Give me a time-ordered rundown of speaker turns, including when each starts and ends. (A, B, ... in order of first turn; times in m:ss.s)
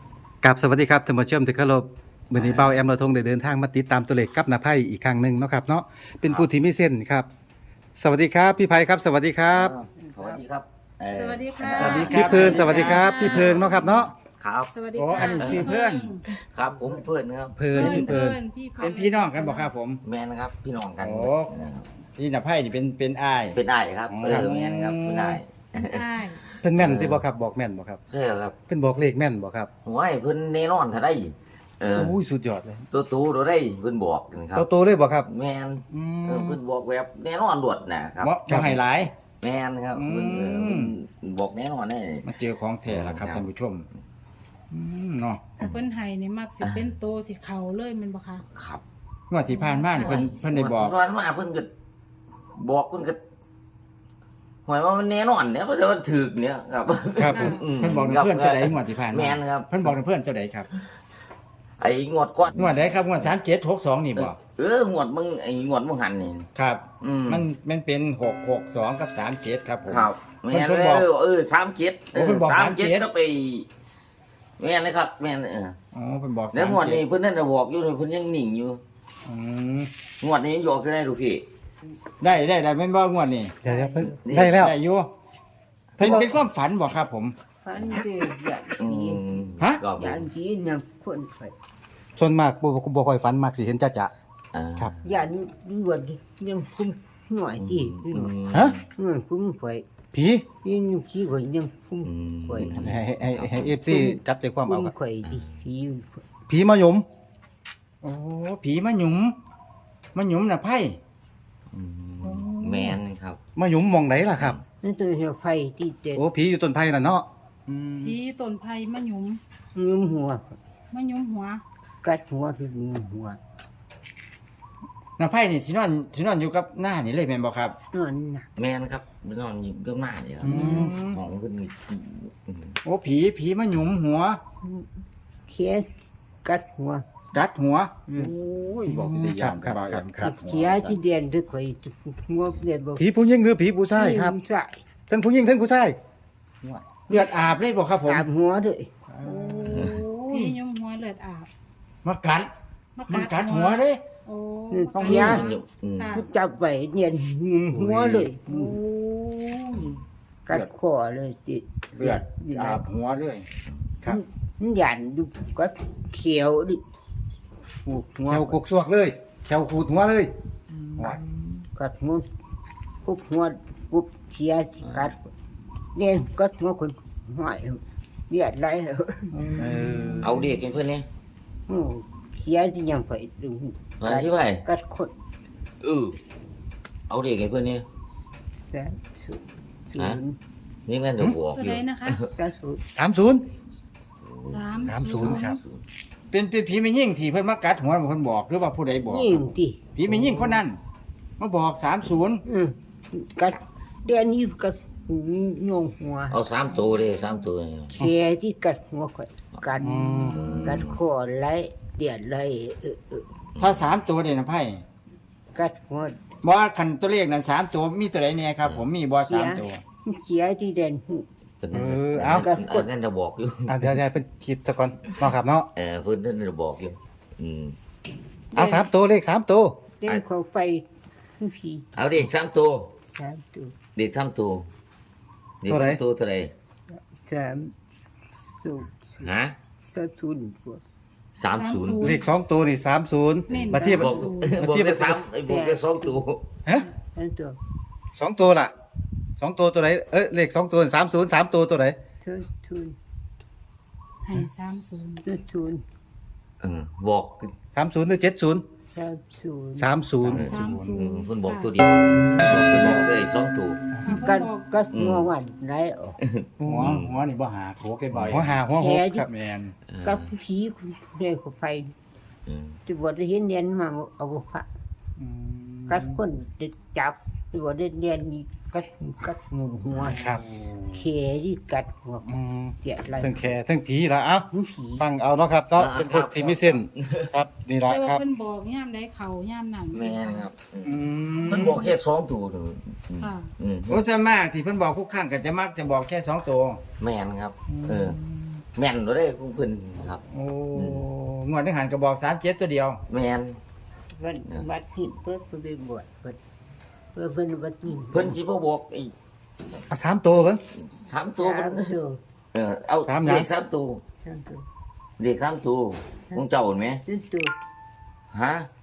0:00.4-0:07.3 A
0:02.3-0:02.8 B
0:08.0-0:09.8 A
0:09.5-0:15.8 B
0:10.0-0:10.4 C
0:11.1-0:13.6 D
0:11.8-0:13.1 E
0:12.1-0:14.1 A
0:14.7-0:16.3 D
0:14.9-0:16.1 E
0:16.3-0:17.8 B
0:17.6-0:18.4 A
0:17.7-0:19.7 D
0:18.8-0:20.0 E
0:20.0-0:21.9 B
0:21.0-0:21.5 E
0:22.2-0:25.4 E
0:23.5-0:26.1 B
0:24.3-0:24.5 A
0:25.7-0:26.4 D
0:26.6-0:28.0 A
0:26.7-0:27.2 B
0:28.1-0:28.6 B
0:28.7-0:29.7 A
0:29.8-0:32.1 B
0:31.9-0:32.9 A
0:32.9-0:34.7 B
0:34.6-0:35.3 A
0:35.3-0:38.3 B
0:35.9-0:36.6 A
0:38.2-0:39.1 E
0:38.5-0:38.8 A
0:39.4-0:42.3 B
0:39.9-0:40.9 E
0:42.2-0:43.9 E
0:42.9-0:43.5 B
0:44.7-0:45.6 E
0:45.6-0:48.4 D
0:46.6-0:46.9 B
0:48.6-0:48.8 B
0:49.3-0:50.9 E
0:49.5-0:50.2 D
0:50.0-0:51.7 B
0:52.6-0:53.2 B
0:54.7-0:59.8 B
0:57.2-0:57.6 A
0:57.3-0:57.7 D
0:57.7-1:00.7 E
1:01.8-1:03.2 B
1:02.5-1:04.4 E
1:04.2-1:06.5 B
1:06.6-1:11.1 E
1:07.0-1:07.5 B
1:09.9-1:13.7 B
1:12.1-1:13.1 E
1:14.6-1:15.8 B
1:15.9-1:17.0 E
1:16.5-1:18.8 B
1:19.3-1:19.9 E
1:20.2-1:21.4 B
1:22.2-1:23.5 E
1:23.6-1:24.2 C
1:23.6-1:24.7 A
1:24.2-1:24.6 B
1:24.3-1:25.1 E
1:26.0-1:26.3 A
1:26.0-1:27.3 E
1:27.6-1:31.5 C
1:27.8-1:28.0 B
1:28.8-1:30.3 B
1:29.6-1:29.8 E
1:32.2-1:34.1 A
1:34.5-1:35.2 B
1:35.0-1:38.3 C
1:37.6-1:38.8 B
1:39.0-1:39.9 C
1:40.1-1:40.5 A
1:40.6-1:42.9 C
1:42.0-1:43.8 B
1:42.7-1:44.9 A
1:43.9-1:46.2 C
1:46.5-1:47.1 A
1:48.0-1:49.4 E
1:50.1-1:51.0 E
1:51.7-1:53.4 B
1:52.2-1:53.0 E
1:53.6-1:54.6 A
1:54.8-1:56.2 C
1:56.2-1:57.3 A
1:57.7-1:57.9 E
1:58.0-1:59.4 D
1:59.8-2:00.5 C
2:00.9-2:01.6 D
2:02.0-2:03.4 C
2:05.2-2:07.8 E
2:07.9-2:08.5 C
2:08.6-2:12.8 B
2:10.4-2:11.2 E
2:10.6-2:10.9 A
2:12.8-2:14.4 E
2:14.6-2:14.9 C
2:15.5-2:15.9 C
2:16.4-2:17.0 C
2:17.3-2:21.0 E
2:18.1-2:18.3 C
2:18.9-2:20.2 A
2:20.2-2:23.0 C
2:23.0-2:24.4 A
2:23.9-2:24.8 C
2:25.1-2:26.0 A
2:27.1-2:28.2 E
2:28.0-2:29.9 C
2:29.2-2:30.6 E
2:29.7-2:30.0 B
2:30.3-2:31.5 D
2:32.0-2:32.5 E
2:33.0-2:36.3 D
2:33.1-2:34.0 E
2:34.7-2:35.5 C
2:35.0-2:35.5 E
2:35.0-2:36.2 B
2:36.1-2:39.9 C
2:37.7-2:38.3 A
2:38.5-2:39.6 E
2:40.5-2:42.8 C
2:42.0-2:43.5 E
2:44.0-2:46.8 C
2:47.9-2:48.6 C
2:48.3-2:50.3 A
2:50.7-2:51.6 E
2:51.8-2:52.3 C
2:53.0-2:55.2 C
2:56.0-2:59.4 C
2:59.3-3:00.5 E
2:59.6-3:00.4 A
3:00.2-3:01.1 B
3:01.7-3:05.1 C
3:04.0-3:04.6 B
3:05.8-3:06.2 B
3:07.1-3:07.8 B
3:08.6-3:10.4 C
3:10.9-3:12.3 B
3:11.5-3:12.2 D
3:12.4-3:12.8 C
3:13.0-3:13.4 A
3:14.2-3:15.8 B
3:14.5-3:15.5 D
3:14.8-3:15.6 A
3:16.3-3:19.4 E
3:19.0-3:20.6 C
3:20.0-3:20.8 E
3:21.4-3:22.4 E
3:22.4-3:26.4 C
3:26.3-3:28.0 B
3:27.9-3:33.3 C
3:29.8-3:30.4 A
3:30.3-3:31.0 B
3:33.6-3:34.0 B
3:33.6-3:34.8 E
3:35.5-3:36.2 C
3:36.4-3:39.8 E
3:38.6-3:38.9 B
3:39.2-3:41.3 C
3:41.6-3:43.9 B
3:41.7-3:42.5 A
3:42.3-3:42.9 C
3:43.7-3:45.7 A
3:45.8-3:47.8 B
3:48.5-3:48.9 C
3:48.6-3:49.8 A
3:50.0-3:50.9 C
3:51.4-3:51.9 C
3:51.9-3:52.9 B
3:53.1-3:53.8 C
3:54.0-3:54.7 B
3:55.6-3:56.5 B
3:55.7-3:56.0 A
3:57.1-3:57.7 C
3:58.6-3:59.3 C
3:59.2-3:59.6 B
3:59.8-4:00.8 C
4:01.4-4:02.2 B
4:01.5-4:02.3 D
4:02.0-4:05.2 A
4:03.5-4:06.4 B
4:03.5-4:04.6 D
4:05.4-4:06.2 C
4:06.8-4:07.6 C
4:08.2-4:08.7 A
4:09.4-4:12.0 A
4:12.2-4:13.0 C
4:14.2-4:15.2 D
4:15.2-4:15.8 C
4:16.6-4:17.5 B
4:17.7-4:18.6 A
4:18.9-4:19.9 C
4:19.8-4:20.5 A
4:20.2-4:20.9 E
4:20.3-4:23.8 B
4:20.5-4:21.7 D
4:22.4-4:23.1 A
4:24.0-4:24.7 D
4:24.2-4:26.2 C
4:24.9-4:25.3 B
4:26.2-4:27.2 B
4:26.6-4:27.0 A
4:26.6-4:28.6 E
4:28.1-4:28.4 B
4:28.3-4:29.3 A
4:28.7-4:29.3 C
4:29.3-4:29.8 E
4:29.9-4:30.3 B
4:30.0-4:31.9 C
4:32.5-4:32.8 B
4:32.9-4:34.7 C
4:35.2-4:36.2 E
4:35.9-4:40.2 C
4:40.1-4:41.0 E
4:40.9-4:43.5 C
4:42.3-4:44.5 A
4:44.5-4:45.1 C
4:45.0-4:48.2 A
4:45.8-4:47.3 B
4:47.9-4:50.5 D
4:49.9-4:54.1 B
4:50.8-4:51.9 E
4:53.2-4:53.5 D
4:53.9-4:56.8 E
4:57.0-4:58.2 B
4:57.7-4:58.6 E
4:58.8-5:00.2 B
5:00.3-5:03.0 E
5:00.7-5:01.1 B
5:03.1-5:03.6 B
5:04.2-5:06.4 C
5:07.1-5:08.4 C
5:08.1-5:09.1 B
5:09.9-5:10.6 A
5:10.8-5:12.0 B
5:11.4-5:12.2 C
5:12.5-5:14.0 B
5:13.0-5:13.5 A
5:14.2-5:14.6 C
5:15.2-5:17.0 B
5:17.1-5:17.5 C
5:18.3-5:18.7 B